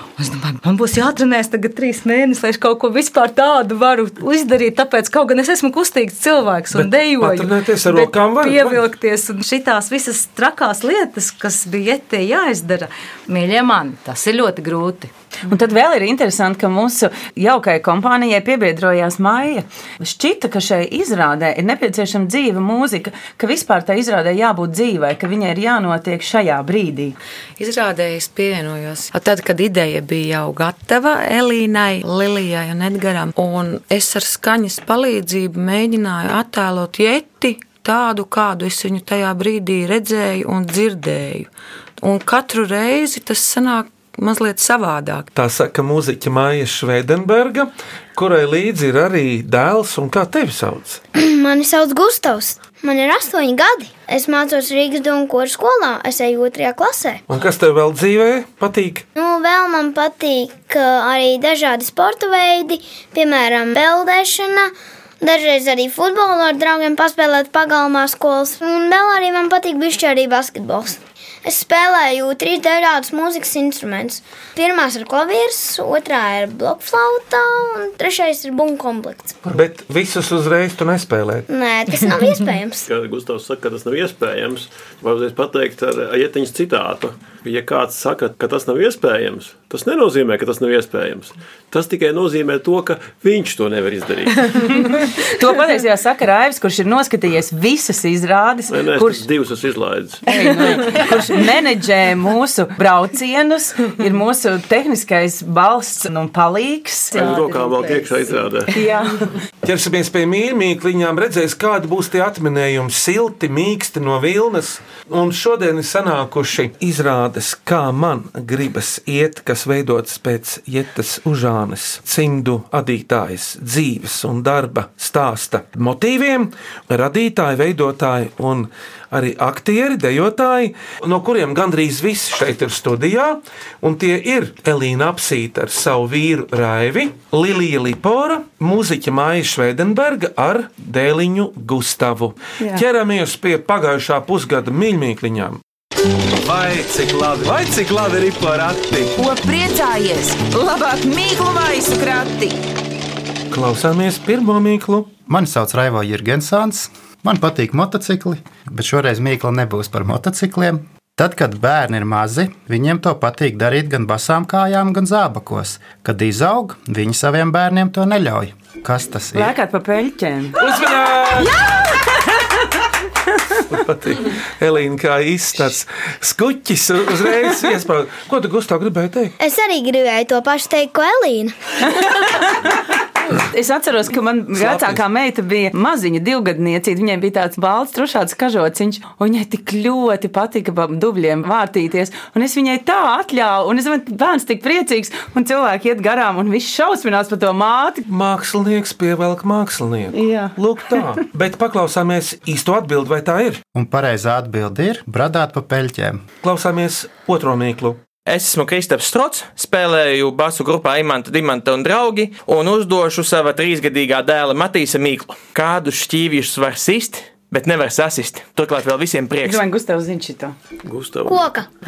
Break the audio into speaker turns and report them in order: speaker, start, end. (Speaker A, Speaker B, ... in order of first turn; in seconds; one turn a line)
Speaker A: 0.2-15.1
Speaker B: 6.7-8.8
Speaker C: 15.5-27.2
Speaker D: 27.6-41.5
Speaker D: 42.0-45.3
Speaker B: 45.4-51.0
Speaker E: 51.1-57.2
Speaker B: 57.3-59.1
Speaker E: 59.2-79.4
Speaker B: 79.4-81.5
Speaker E: 81.5-82.9
Speaker F: 82.9-94.5
Speaker C: 94.7-99.2
Speaker F: 98.7-100.2
Speaker C: 100.2-107.9
Speaker F: 107.1-108.7
Speaker C: 108.7-109.2
Speaker B: 109.6-145.6
Speaker G: 146.4-149.1
Speaker H: 149.2-152.6
Speaker B: 153.5-155.1
Speaker I: 155.3-169.6
Speaker C: 169.3-170.6
Speaker B: 170.6-171.6
Speaker B: 173.7-179.3
Speaker E: 179.4-181.5
Speaker C: 183.3-198.0
Speaker B: 184.6-185.0
Speaker B: 198.1-203.6
Speaker C: 200.1-201.0
Speaker I: 203.7-206.2
Speaker B: 206.4-208.0
Speaker J: 208.2-219.6
Speaker C: 219.4-220.6
Speaker F: 220.8-221.4
Speaker E: 221.2-221.7